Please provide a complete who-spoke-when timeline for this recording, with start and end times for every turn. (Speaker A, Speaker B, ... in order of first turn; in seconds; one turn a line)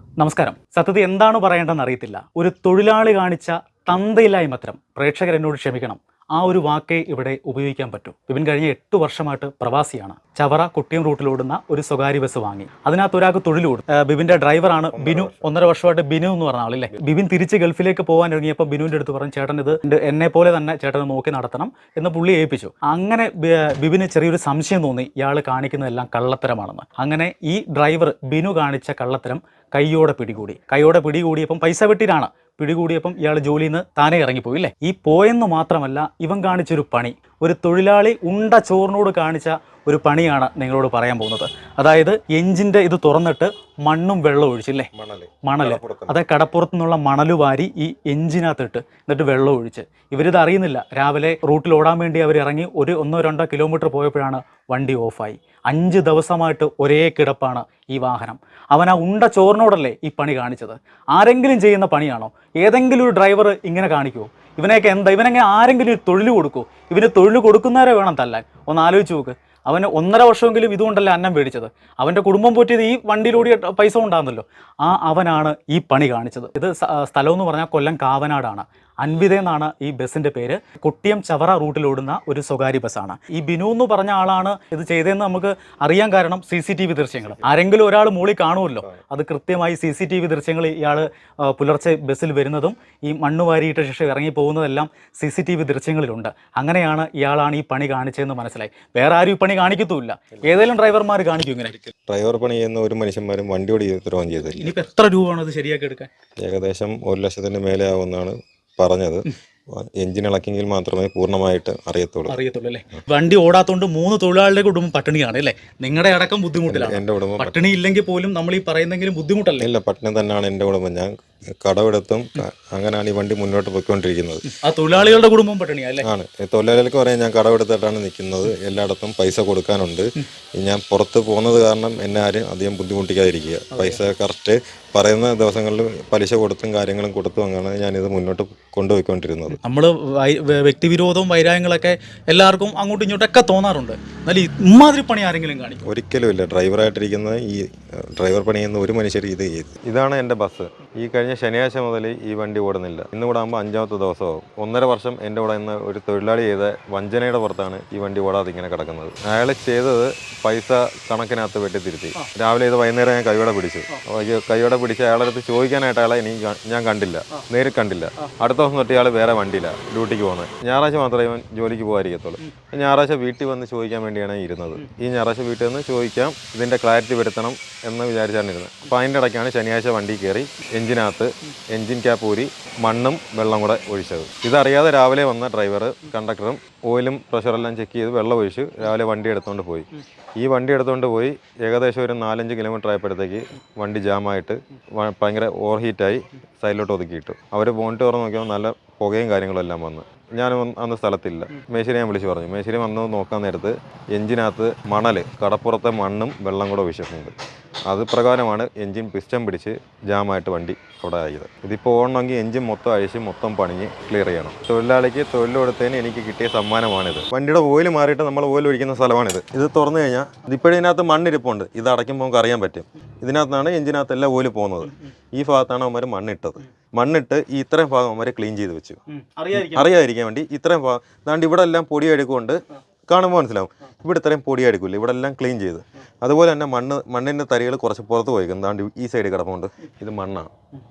Speaker A: 0.2-44.9
Speaker B: 14.9-15.7
Speaker B: 45.0-46.2
Speaker A: 45.4-101.9
Speaker B: 102.1-104.7
Speaker A: 104.5-106.1
Speaker B: 106.4-112.3
Speaker A: 112.3-119.7
Speaker B: 116.7-117.6
Speaker B: 119.6-124.5
Speaker A: 124.5-126.0
Speaker B: 126.0-139.6
Speaker A: 139.6-145.8
Speaker B: 145.8-207.3
Speaker B: 207.9-229.0
Speaker A: 229.1-229.9
Speaker B: 229.5-240.5